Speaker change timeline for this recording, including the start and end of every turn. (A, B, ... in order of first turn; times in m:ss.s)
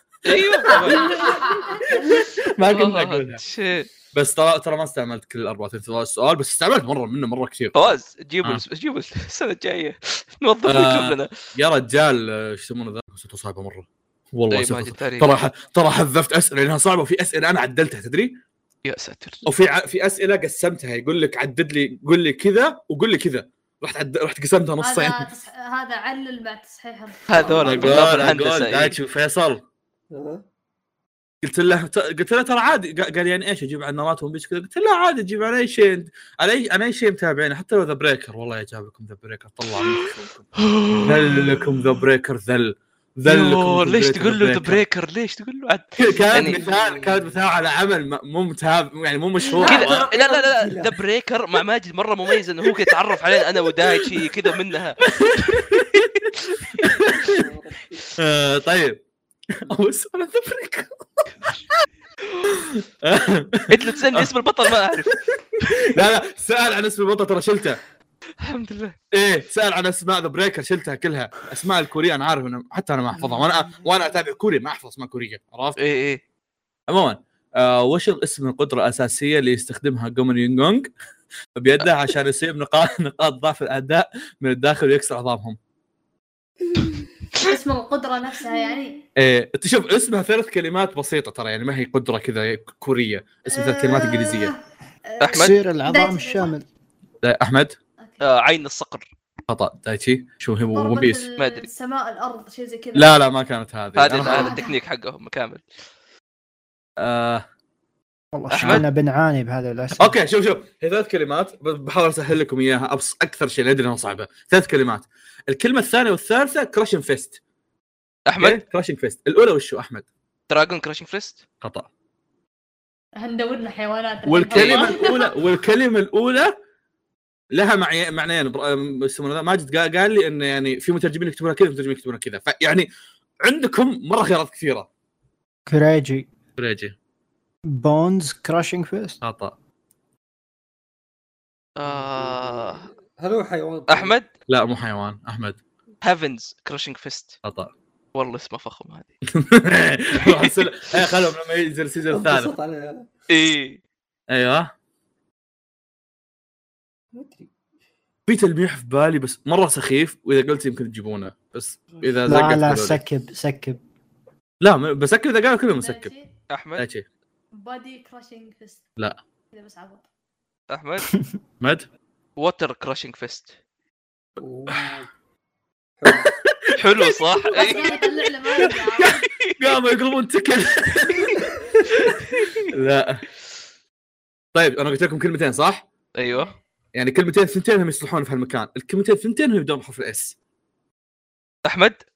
0:00.2-0:01.3 A
0:00.3-0:03.4 B
0:00.9-0:02.2 C
0:02.7-0:03.9 A
0:04.1-0:07.8 B
0:07.8-0:11.3 A
0:10.6-0:18.4 B
0:14.5-0:15.3 A
0:18.8-0:19.4 A
0:19.4-0:25.3 B
0:24.8-0:28.0 C
0:27.3-0:29.0 A
0:27.4-0:28.1 D
0:27.6-0:29.6 B
0:30.1-0:30.4 D
0:31.4-0:40.5 B
0:40.6-0:41.6 A
0:41.0-0:44.8 B
0:43.3-0:46.6 A
0:46.0-0:50.1 B
0:46.4-0:47.4 D
0:49.4-0:50.9 D
0:49.7-0:55.7 A
0:55.1-0:57.4 B
0:57.2-0:58.1 D
0:58.2-0:59.0 B
0:59.5-1:01.2 B
1:02.5-1:04.3 B
1:03.7-1:05.2 A
1:05.7-1:07.8 B
1:08.4-1:09.0 A
1:09.1-1:15.8 B
1:15.8-1:16.2 A
1:16.9-1:20.9 B
1:21.6-1:25.6 B
1:27.4-1:29.0 C
1:29.2-1:34.5 B
1:33.5-1:36.5 C
1:35.2-1:35.5 A
1:35.3-1:36.6 E
1:37.2-1:37.8 B
1:38.2-1:39.1 A
1:39.5-1:41.2 B
1:40.8-1:43.1 C
1:41.4-1:41.7 A
1:42.9-1:44.6 B
1:44.0-1:45.6 A
1:44.2-1:44.8 C
1:47.0-1:47.4 B
1:48.3-1:50.2 E
1:48.5-1:48.8 A
1:50.0-1:57.4 B
1:58.3-1:58.6 A
1:58.4-2:00.1 B
2:00.5-2:01.4 A
2:01.6-2:01.9 B
2:03.2-2:05.3 C
2:04.3-2:06.6 B
2:04.6-2:04.8 A
2:07.5-2:12.9 B
2:13.4-2:14.9 B
2:15.7-2:16.3 E
2:16.6-2:17.0 B
2:17.7-2:19.2 E
2:19.2-2:19.5 B
2:21.8-2:22.8 A
2:21.8-2:24.1 D
2:23.9-2:24.3 A
2:24.5-2:25.6 B
2:26.0-2:27.4 A
2:27.4-2:27.7 B
2:28.2-2:29.1 A
2:29.3-2:32.5 B
2:30.3-2:30.5 A
2:32.1-2:33.1 D
2:33.3-2:33.8 A
2:34.3-2:34.7 B
2:37.1-2:37.5 D
2:38.3-2:43.0 B
2:42.3-2:43.8 E
2:44.6-2:46.1 B
2:45.8-2:46.3 C
2:46.5-2:46.8 A
2:46.8-2:47.0 B
2:47.6-2:48.8 C
2:49.5-2:50.0 C
2:50.7-2:51.1 A
2:52.4-2:53.5 A
2:54.4-2:55.1 D
2:56.0-2:56.3 D
2:56.1-2:57.7 B
2:56.8-2:58.0 A
2:57.5-2:59.2 C
2:58.6-3:01.4 B
3:02.7-3:03.2 B
3:04.6-3:05.9 B
3:06.2-3:06.5 A
3:07.0-3:10.4 B
3:11.6-3:12.0 A